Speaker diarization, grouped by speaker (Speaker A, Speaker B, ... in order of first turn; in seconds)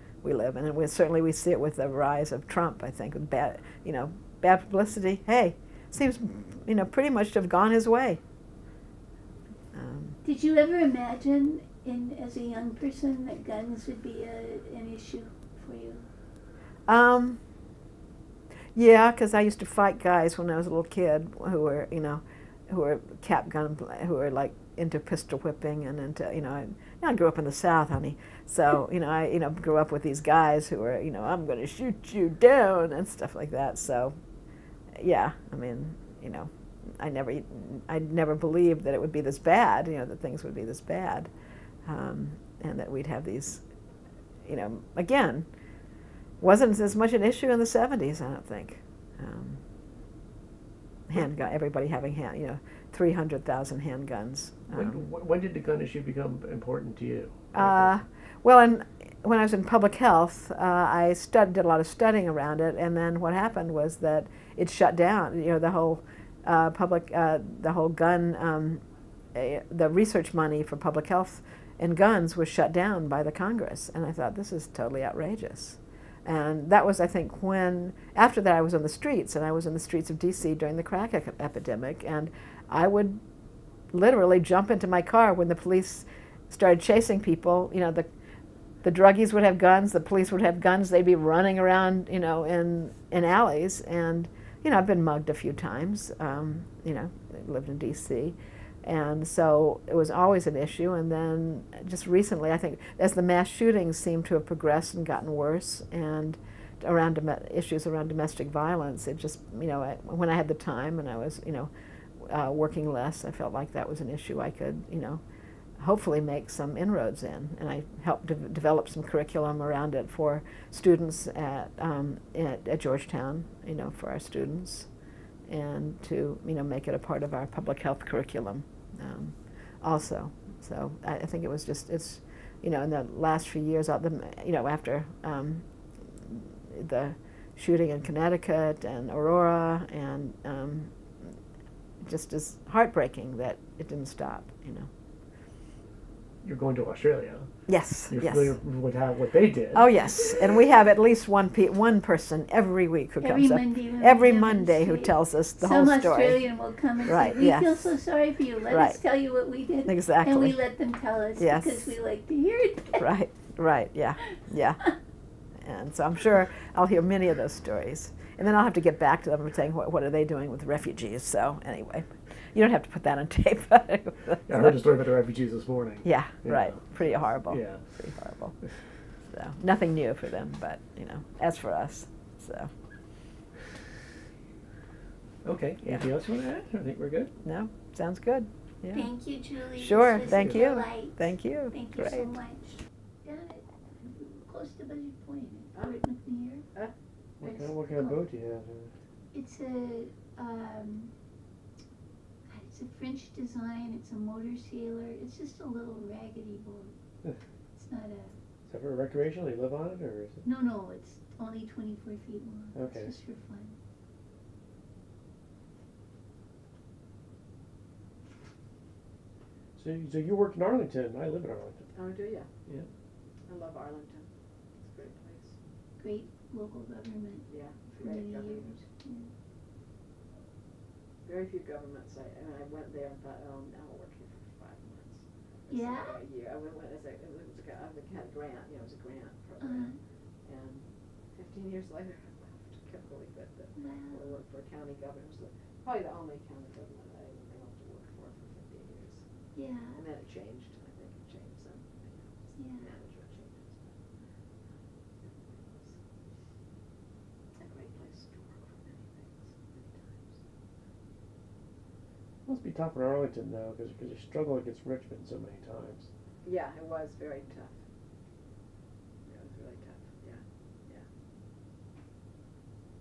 Speaker A: 0.2-8.2, 9.7-10.2, 16.9-17.4, 18.7-34.1, 35.0-41.3, 41.9-43.6, 44.5-45.5, 46.4-49.6, 51.1-55.0, 57.5-68.8, 69.3-83.2, 83.9-88.0, 88.8-115.2, 115.8-124.9, 125.5-141.3, 142.0-144.9, 147.7-148.5, 149.7-156.4, 157.0-157.9, 158.7-159.0, 159.8-160.6, 161.4-161.9, 163.0-164.9, 165.6-174.8, 176.0-178.6, 179.3-182.7, 187.4-189.1, 189.7-192.3, 221.9-222.5, 223.5-224.3, 224.8-225.6, 227.5-228.8, 231.2-249.2, 249.9-254.0, 254.7-256.0, 257.6-260.4, 266.4-267.8, 269.3-271.1
Speaker B: 10.2-16.0, 153.2-163.0, 188.9-191.2, 191.7-196.7, 197.4-198.2, 199.3-201.1, 202.5-206.9, 207.7-208.3, 210.4-213.8, 226.0-227.5, 228.0-229.3, 235.7-236.2, 239.6-239.9, 243.8-244.2, 249.5-250.0, 252.6-252.8
Speaker C: 54.7-57.9, 146.4-147.5, 148.1-149.9, 174.5-177.8, 185.4-187.3, 190.3-190.6, 197.4-198.9, 208.7-210.4, 212.7-213.1, 219.8-221.9, 262.4-266.1